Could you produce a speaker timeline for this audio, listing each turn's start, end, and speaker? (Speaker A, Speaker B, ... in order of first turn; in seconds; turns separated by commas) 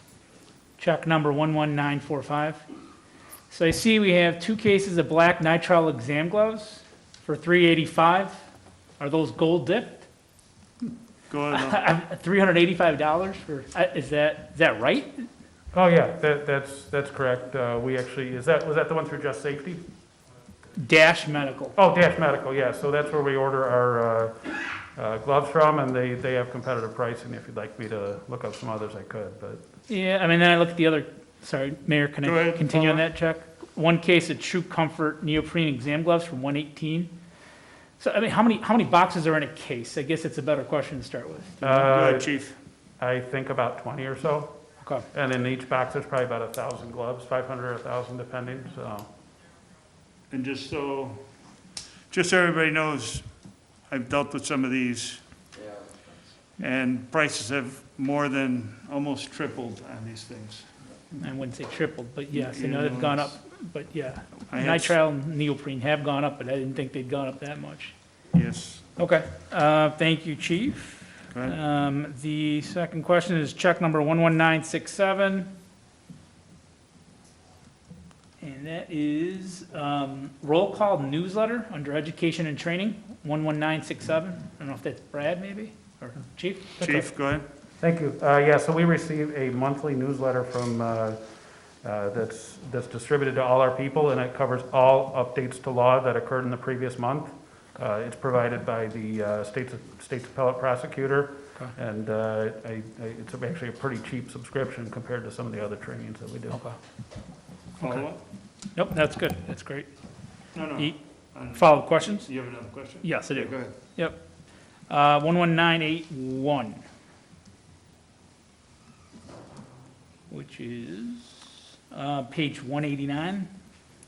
Speaker A: 0.8-2.6, Speaker A: 3.5-8.4, Speaker A: 9.0-10.1, Speaker B: 11.3-11.9, Speaker A: 11.5-15.3, Speaker C: 15.7-19.8, Speaker A: 20.7-21.8, Speaker C: 21.8-29.6, Speaker A: 29.9-37.1, Speaker B: 32.2-33.0, Speaker A: 38.0-41.9, Speaker C: 41.6-42.3, Speaker B: 41.8-42.5, Speaker C: 43.0-44.6, Speaker C: 45.1-49.1, Speaker B: 50.3-51.2, Speaker B: 52.1-53.3, Speaker B: 53.9-55.2, Speaker B: 56.6-60.7, Speaker A: 61.2-67.9, Speaker B: 62.3-63.3, Speaker B: 64.5-65.0, Speaker B: 68.3-68.8, Speaker A: 69.0-75.5, Speaker B: 71.3-71.5, Speaker A: 78.4-87.1, Speaker B: 86.8-87.5, Speaker C: 87.8-91.2, Speaker C: 91.8-106.6, Speaker A: 106.5-106.8, Speaker B: 107.8-108.2, Speaker A: 108.7-109.9, Speaker B: 110.5-113.7, Speaker A: 111.5-112.2, Speaker A: 113.0-114.2, Speaker A: 114.9-116.8, Speaker A: 120.3-123.5